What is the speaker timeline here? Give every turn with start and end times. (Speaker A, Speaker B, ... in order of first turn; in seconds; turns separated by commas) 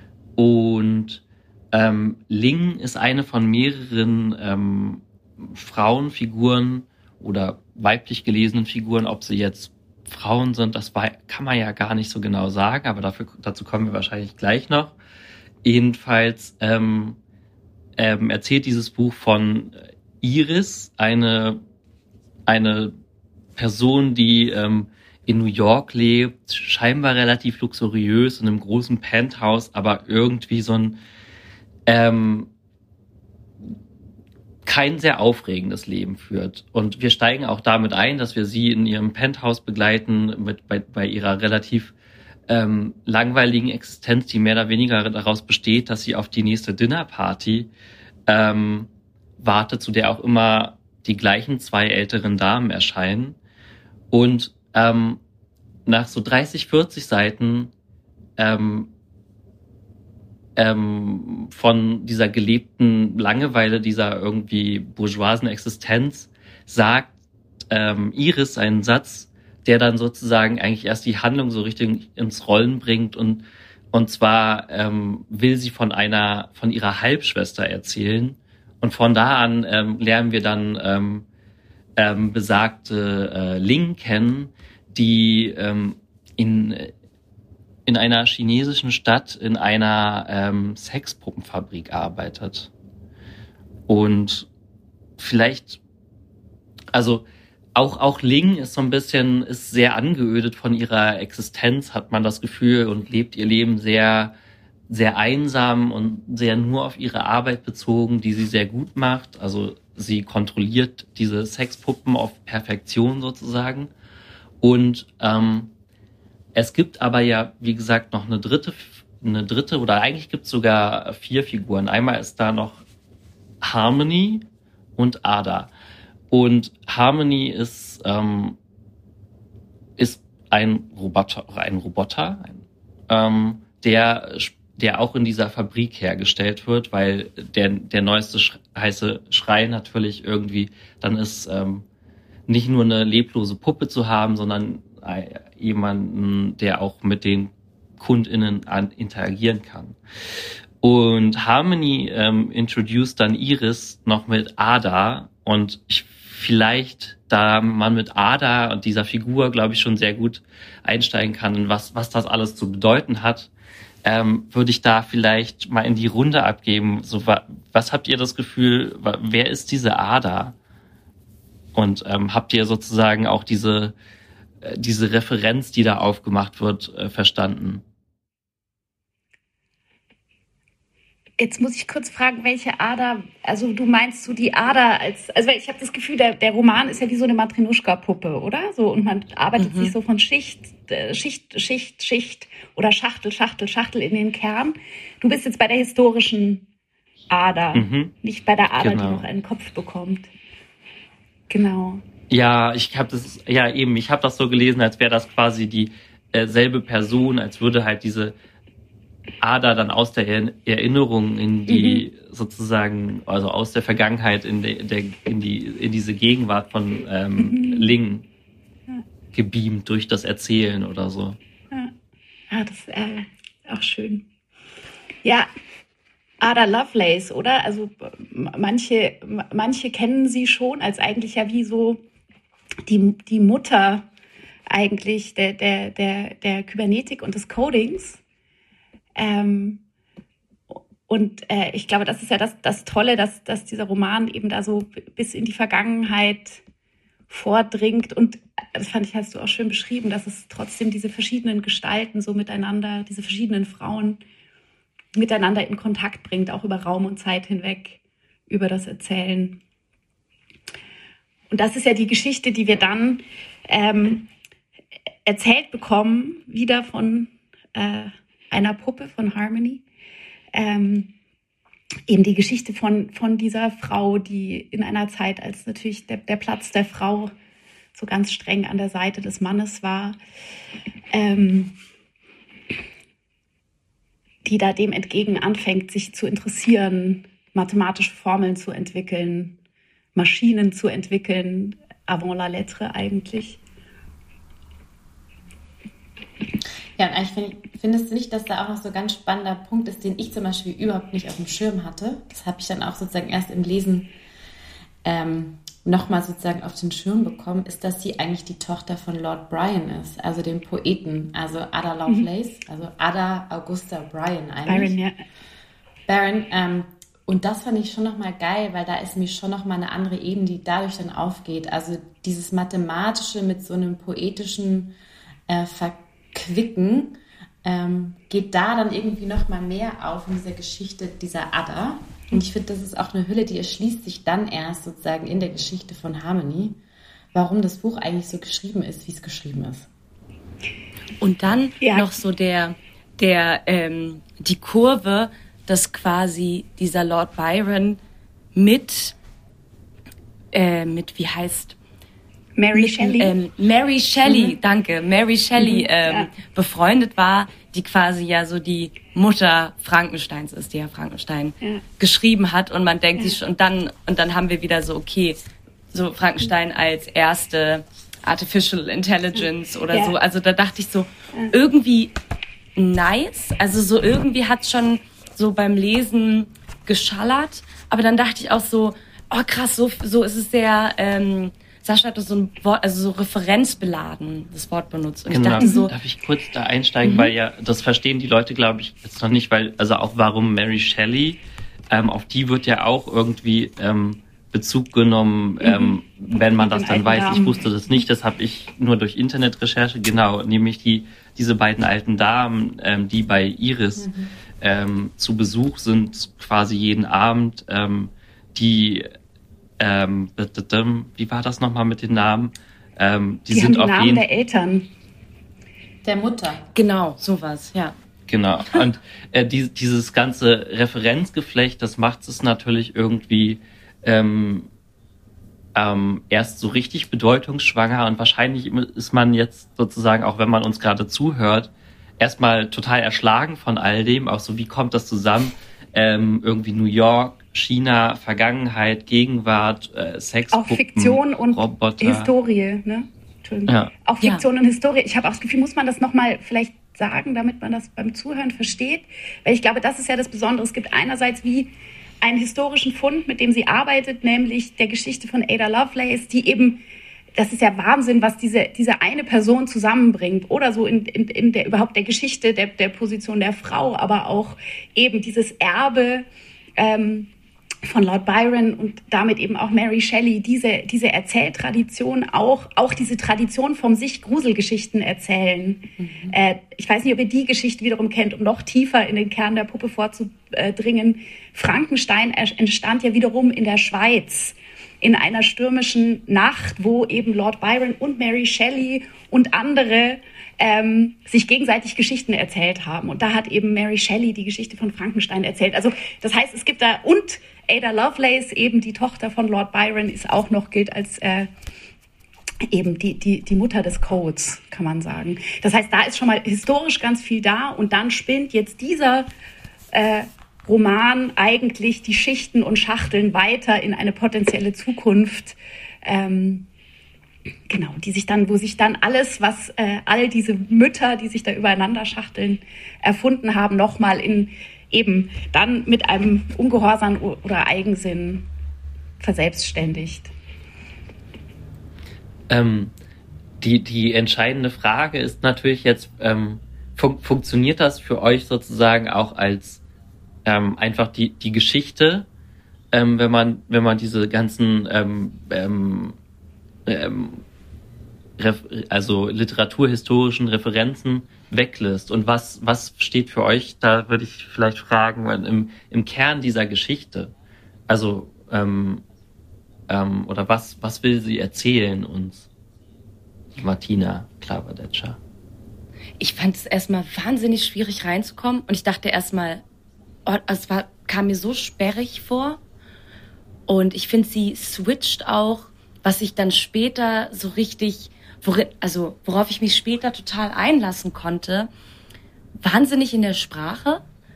Speaker A: 0.3-15.0, Speaker A: 15.6-17.2, Speaker A: 18.0-21.6, Speaker A: 22.5-22.9, Speaker A: 23.6-31.0, Speaker A: 31.9-32.5, Speaker A: 34.6-41.9, Speaker A: 42.5-47.7, Speaker A: 48.3-53.4, Speaker A: 54.1-55.2, Speaker A: 55.9-57.7, Speaker A: 58.4-58.9, Speaker A: 60.5-67.1, Speaker A: 67.7-81.3, Speaker A: 82.0-86.9, Speaker A: 87.8-92.7, Speaker A: 93.9-94.5, Speaker A: 95.2-95.8, Speaker A: 96.9-104.3, Speaker A: 104.9-113.9, Speaker A: 114.6-115.7, Speaker A: 116.5-122.8, Speaker A: 123.6-125.7, Speaker A: 126.3-128.6, Speaker A: 130.0-141.8, Speaker A: 142.5-150.0, Speaker A: 150.8-163.5, Speaker A: 164.0-170.6, Speaker A: 171.7-173.9, Speaker A: 174.6-177.8, Speaker B: 181.4-196.7, Speaker C: 189.6-189.9, Speaker B: 197.3-200.3, Speaker A: 197.7-198.1, Speaker A: 198.8-199.3, Speaker B: 201.5-202.0, Speaker A: 202.3-208.3, Speaker A: 209.4-218.2, Speaker B: 211.7-212.1, Speaker B: 217.4-217.9, Speaker A: 219.3-221.4, Speaker B: 222.5-224.2, Speaker B: 225.2-225.5, Speaker B: 226.4-232.0, Speaker B: 232.8-234.1, Speaker B: 234.7-238.2, Speaker B: 239.2-239.8, Speaker B: 241.1-246.6, Speaker B: 247.3-254.2, Speaker B: 255.2-259.6, Speaker B: 261.5-264.3, Speaker B: 265.2-269.8, Speaker B: 270.5-271.1, Speaker B: 272.1-277.3, Speaker B: 277.9-280.2, Speaker B: 281.1-281.7, Speaker B: 284.4-289.6, Speaker B: 290.1-293.6, Speaker D: 297.0-304.1, Speaker D: 305.0-314.9, Speaker B: 314.7-315.2, Speaker D: 316.1-324.9, Speaker D: 325.5-336.8, Speaker D: 337.3-339.9, Speaker C: 341.2-348.0, Speaker B: 341.8-342.1, Speaker C: 348.5-349.1, Speaker C: 350.5-351.8, Speaker B: 352.6-353.4, Speaker C: 352.7-365.4, Speaker B: 354.2-354.6, Speaker B: 355.6-356.3, Speaker C: 365.9-372.1, Speaker C: 372.8-385.9, Speaker A: 385.3-409.1, Speaker B: 385.6-385.9, Speaker B: 387.0-387.3, Speaker B: 395.6-397.6, Speaker D: 404.0-404.3, Speaker A: 409.8-414.3, Speaker B: 413.5-414.9, Speaker D: 416.0-416.6, Speaker C: 416.7-417.9, Speaker A: 418.3-424.7, Speaker A: 425.7-442.3, Speaker B: 440.5-456.8, Speaker A: 443.7-443.9, Speaker B: 457.4-466.2, Speaker B: 466.8-467.3, Speaker B: 467.8-501.5, Speaker D: 476.0-476.4, Speaker B: 502.7-509.3, Speaker B: 509.9-516.7, Speaker B: 517.7-528.5, Speaker B: 529.2-530.3, Speaker A: 532.5-532.9, Speaker A: 533.6-539.8, Speaker A: 540.4-542.3, Speaker A: 542.9-546.2, Speaker A: 546.9-547.4, Speaker A: 548.4-557.3, Speaker A: 557.9-559.0, Speaker A: 559.9-562.5, Speaker A: 563.6-565.2, Speaker C: 566.2-569.6, Speaker C: 570.2-572.6, Speaker C: 573.7-581.7, Speaker C: 582.6-584.0